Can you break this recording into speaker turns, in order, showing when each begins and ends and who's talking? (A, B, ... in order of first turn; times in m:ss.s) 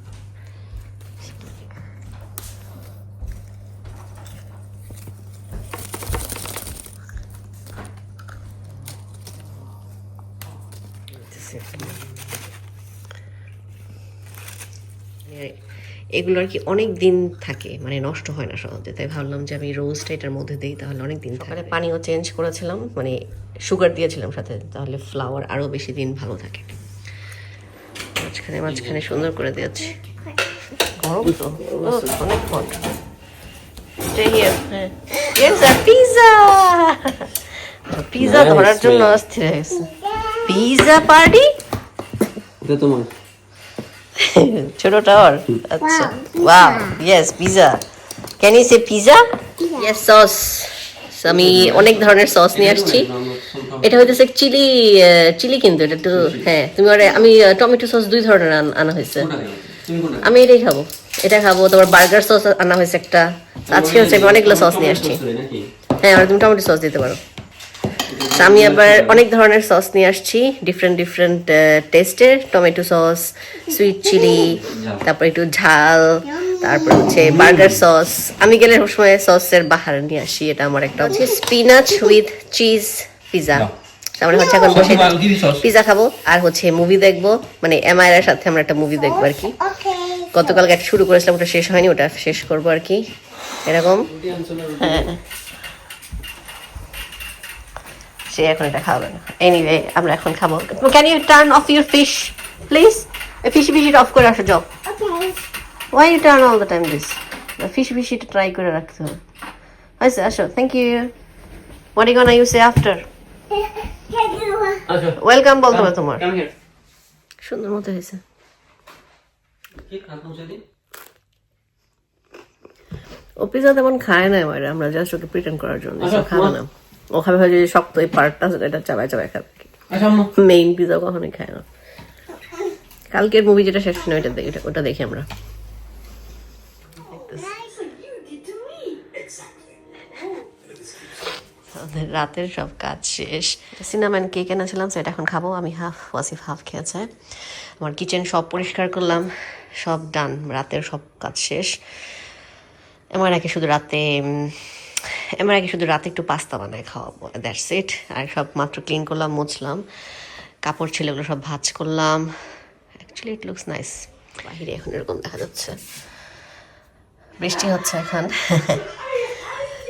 0:01.2-0:01.6 A
0:11.2-0:12.1 A
0:15.2-0:15.6 A
0:16.1-0:26.8 A
0:28.2-0:30.0 A
0:28.6-0:29.4 B
0:30.8-0:32.8 A
0:31.2-0:32.2 B
0:34.0-0:41.5 A
0:38.2-0:39.2 B
0:40.0-0:40.4 C
0:42.6-0:43.1 B
0:44.2-0:47.8 A
0:45.8-0:47.0 C
0:48.4-0:53.1 A
0:49.6-0:49.9 C
0:51.2-0:54.1 B
0:53.8-0:59.3 A
0:56.1-0:56.5 B
0:59.1-1:00.3 B
1:00.2-1:05.2 A
1:03.7-1:05.7 B
1:05.9-1:07.2 A
1:08.0-1:09.2 B
1:08.3-1:29.6 A
1:14.6-1:15.0 B
1:17.1-1:17.8 B
1:24.6-1:25.6 B
1:29.1-1:30.4 C
1:30.3-1:33.0 A
1:33.6-1:34.2 A
1:34.1-1:35.2 B
1:34.8-1:35.2 A
1:38.3-1:44.7 A
1:44.8-1:45.4 C
1:45.9-1:49.2 A
1:50.0-1:51.1 A
1:52.0-1:53.1 A
1:53.6-1:54.9 C
1:54.8-1:56.5 B
1:55.1-1:56.3 A
1:57.4-1:58.2 A
1:59.7-2:00.6 B
2:03.4-2:11.7 A
2:06.0-2:06.6 B
2:09.9-2:10.3 B
2:13.1-2:15.3 A
2:17.0-2:17.6 A
2:17.4-2:18.9 C
2:18.7-2:19.4 B
2:21.7-2:31.8 A
2:33.1-2:39.8 A
2:40.6-2:42.3 A
2:43.0-2:45.8 A
2:47.4-2:49.6 A